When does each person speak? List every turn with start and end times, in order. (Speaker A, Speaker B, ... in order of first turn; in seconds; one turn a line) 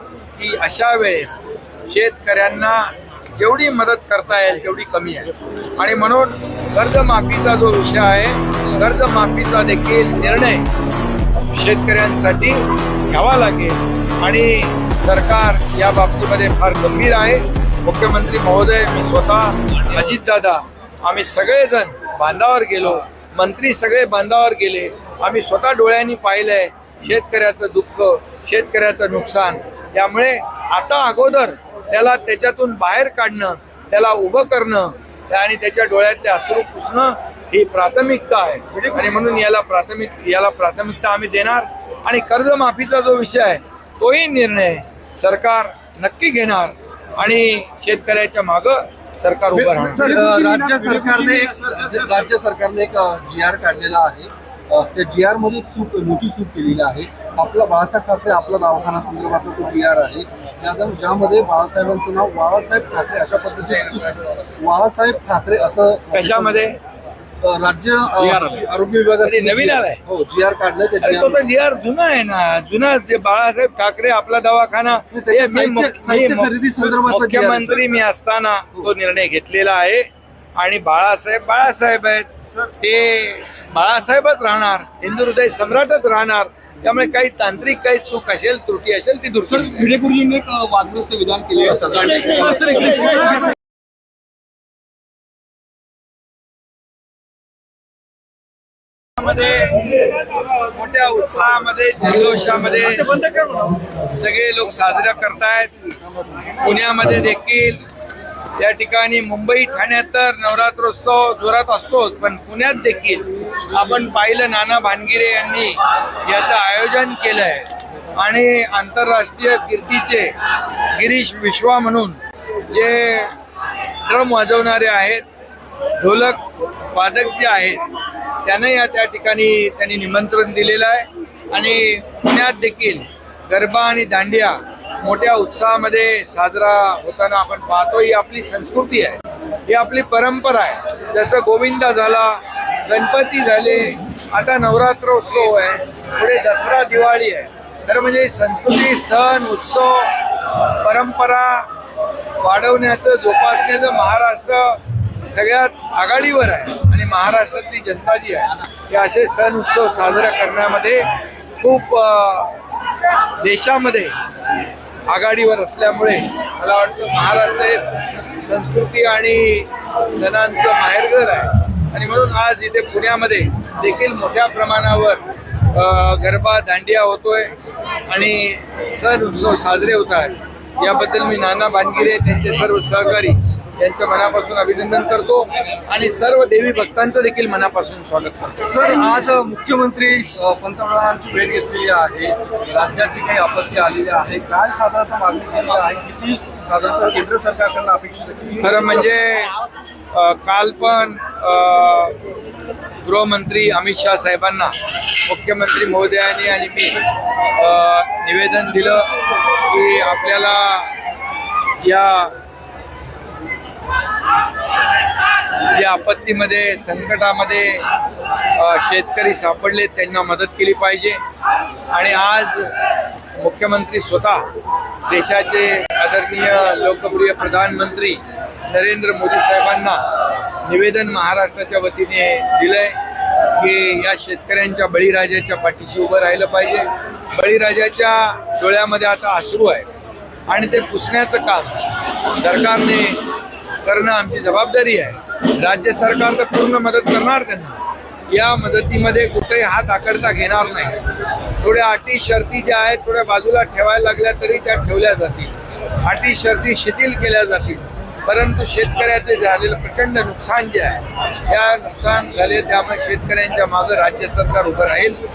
Speaker A: 0.4-10.7
Speaker A: 11.5-50.2
Speaker B: 38.7-39.1
Speaker B: 49.5-52.3
Speaker C: 49.8-66.7
Speaker A: 66.1-66.8
Speaker C: 67.4-71.4
Speaker B: 68.2-68.6
Speaker A: 69.2-70.0
Speaker A: 71.0-82.3
Speaker C: 75.1-77.9
Speaker A: 82.8-89.9
Speaker B: 89.5-93.4
Speaker A: 99.2-103.2
Speaker A: 104.1-105.7
Speaker A: 106.6-107.8
Speaker A: 108.6-120.3
Speaker A: 120.9-122.2
Speaker A: 122.7-123.3
Speaker A: 124.1-125.2
Speaker A: 126.0-126.4
Speaker A: 126.9-127.8
Speaker A: 128.4-150.1
Speaker A: 150.8-151.7
Speaker A: 152.4-161.1
Speaker A: 161.6-162.5
Speaker A: 163.4-164.1
Speaker A: 165.1-177.5
Speaker A: 178.1-188.8
Speaker C: 188.6-199.1
Speaker A: 198.6-199.5
Speaker A: 200.1-202.2
Speaker A: 203.0-207.0
Speaker A: 207.6-209.1
Speaker A: 209.7-210.9
Speaker A: 211.8-212.3
Speaker A: 215.7-217.8
Speaker A: 218.6-221.2
Speaker A: 221.9-222.7
Speaker A: 223.4-224.4
Speaker A: 225.1-230.0
Speaker A: 230.6-232.9
Speaker A: 233.6-239.9
Speaker A: 240.5-241.8
Speaker A: 242.4-243.2
Speaker A: 243.8-247.8
Speaker A: 248.3-251.0
Speaker A: 251.6-265.2